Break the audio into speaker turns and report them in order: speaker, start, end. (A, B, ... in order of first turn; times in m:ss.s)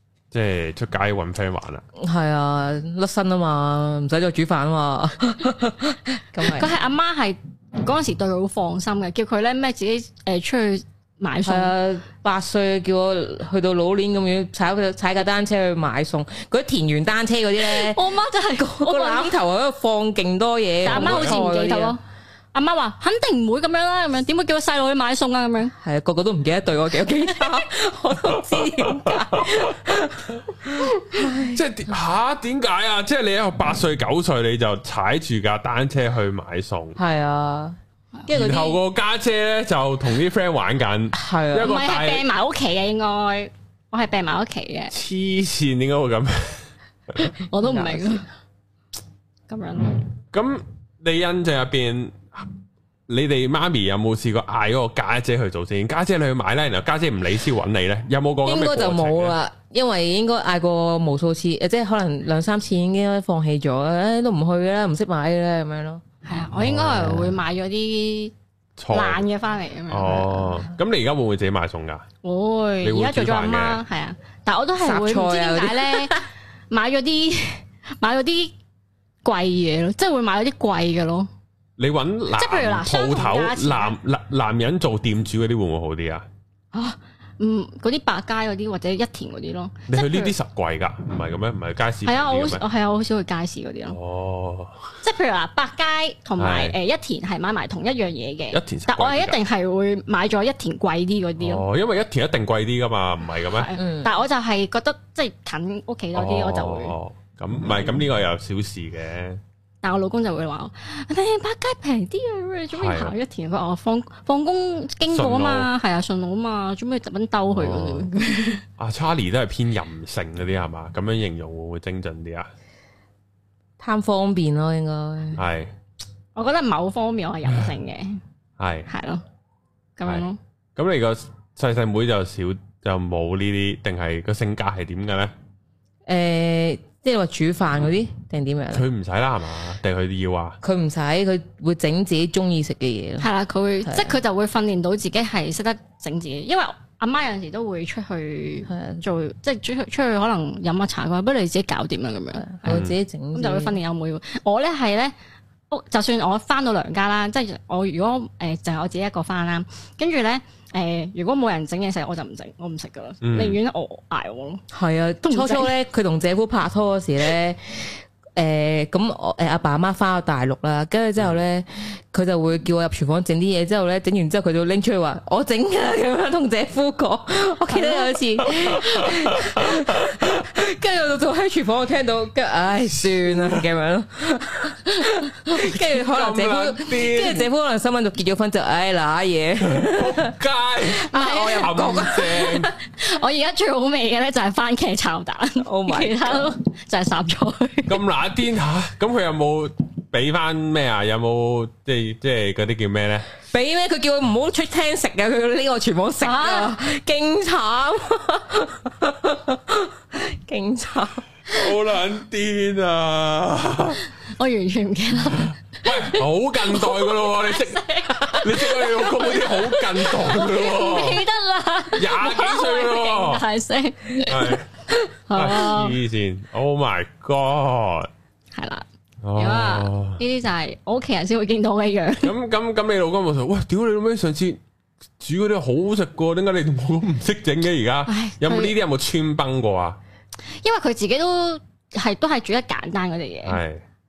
0:00.3-0:01.8 A
0:02.0-0:06.7 B
0:06.4-0:11.7 C
0:11.5-0:22.0 B
0:17.6-0:19.4 C
0:20.8-0:22.0 C
0:20.9-0:21.4 A
0:22.5-0:25.8 C
0:25.8-0:31.6 B
0:27.3-0:27.6 C
0:28.3-0:30.4 A
0:31.5-0:37.0 A
0:37.0-0:38.8 B
0:38.3-0:42.3 A
0:41.1-0:41.7 B
0:41.6-0:44.9 C
0:44.9-0:47.3 A
0:47.2-0:48.2 C
0:47.6-0:48.2 B
0:49.5-0:50.1 C
0:50.3-0:52.5 A
0:53.1-0:59.4 A
0:58.4-1:06.0 B
1:06.2-1:08.3 C
1:06.6-1:07.3 A
1:08.8-1:09.2 A
1:08.9-1:10.6 C
1:09.9-1:12.0 A
1:12.2-1:18.5 C
1:12.8-1:13.8 A
1:14.8-1:16.2 B
1:19.2-1:21.3 C
1:21.8-1:26.3 A
1:22.4-1:24.0 C
1:26.7-1:30.3 C
1:29.9-1:32.6 A
1:32.0-1:34.0 C
1:33.9-1:34.9 A
1:35.0-1:41.7 C
1:36.4-1:36.8 A
1:38.5-1:39.4 A
1:41.4-1:43.7 A
1:43.4-1:47.0 C
1:43.8-1:44.1 B
1:46.2-1:49.4 A
1:49.8-1:58.6 C
1:52.7-1:53.1 A
1:55.1-1:55.7 A
1:57.5-1:58.1 A
1:58.8-2:02.5 A
2:03.8-2:05.4 B
2:05.4-2:05.7 A
2:06.4-2:08.2 C
2:08.6-2:08.9 A
2:08.9-2:09.2 C
2:10.0-2:10.4 C
2:10.0-2:15.3 A
2:16.1-2:18.8 B
2:18.7-2:20.6 A
2:20.6-2:23.3 B
2:23.2-2:35.1 C
2:23.8-2:24.2 B
2:28.7-2:29.0 B
2:32.4-2:33.8 B
2:32.7-2:33.0 A
2:35.7-2:44.6 C
2:43.2-2:43.6 A
2:44.7-3:12.7 B
2:45.2-2:45.7 C
2:57.7-2:58.2 C
2:58.5-3:00.3 A
3:06.0-3:07.5 A
3:09.6-3:12.7 A
3:11.1-3:12.0 C
3:12.9-3:18.0 C
3:15.6-3:16.5 B
3:17.9-3:23.3 A
3:23.5-3:31.3 B
3:26.2-3:26.8 C
3:31.5-3:34.0 A
3:34.2-3:46.0 C
3:35.5-3:41.2 A
3:42.0-3:43.4 A
3:44.3-3:44.7 A
3:45.3-3:48.1 A
3:48.5-3:52.3 C
3:49.2-3:50.2 A
3:52.2-3:54.6 A
3:55.2-4:00.0 A
3:58.1-3:58.8 C
4:00.5-4:03.6 C
4:03.5-4:03.8 A